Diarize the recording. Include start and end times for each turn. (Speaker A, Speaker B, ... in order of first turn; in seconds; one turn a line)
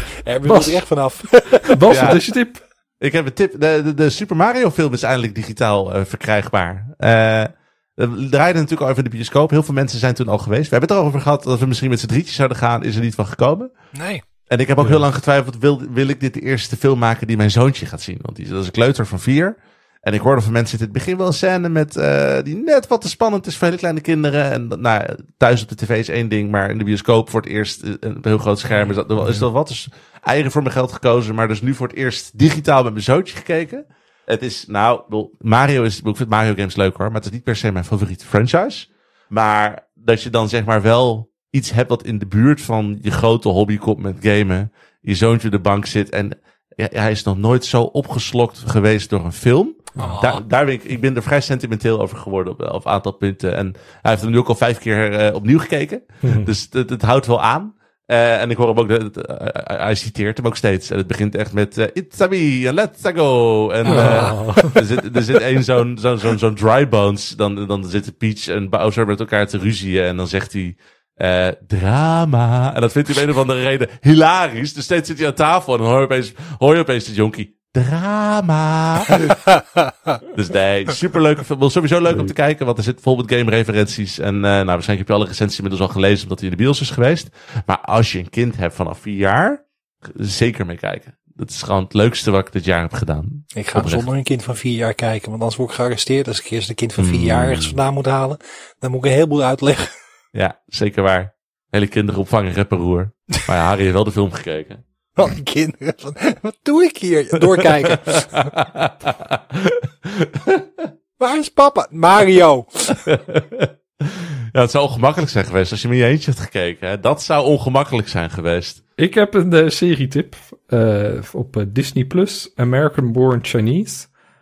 Speaker A: 0.1-2.0
Speaker B: 0.5-0.8
Speaker B: 1.6-2.6
Speaker C: 1.9-2.2
Speaker C: 3.0-13.7
Speaker A: 13.9-14.2
Speaker C: 14.5-79.4
Speaker A: 50.0-50.4
Speaker B: 56.2-56.5
Speaker A: 63.9-64.7
Speaker B: 63.9-64.8
Speaker A: 79.3-79.9
Speaker C: 80.3-94.0
Speaker A: 93.5-99.9
Speaker C: 97.0-97.8
Speaker C: 100.3-104.8
Speaker A: 105.2-108.5
Speaker C: 107.8-110.9
Speaker A: 111.2-113.0
Speaker C: 113.0-118.8
Speaker B: 119.0-124.1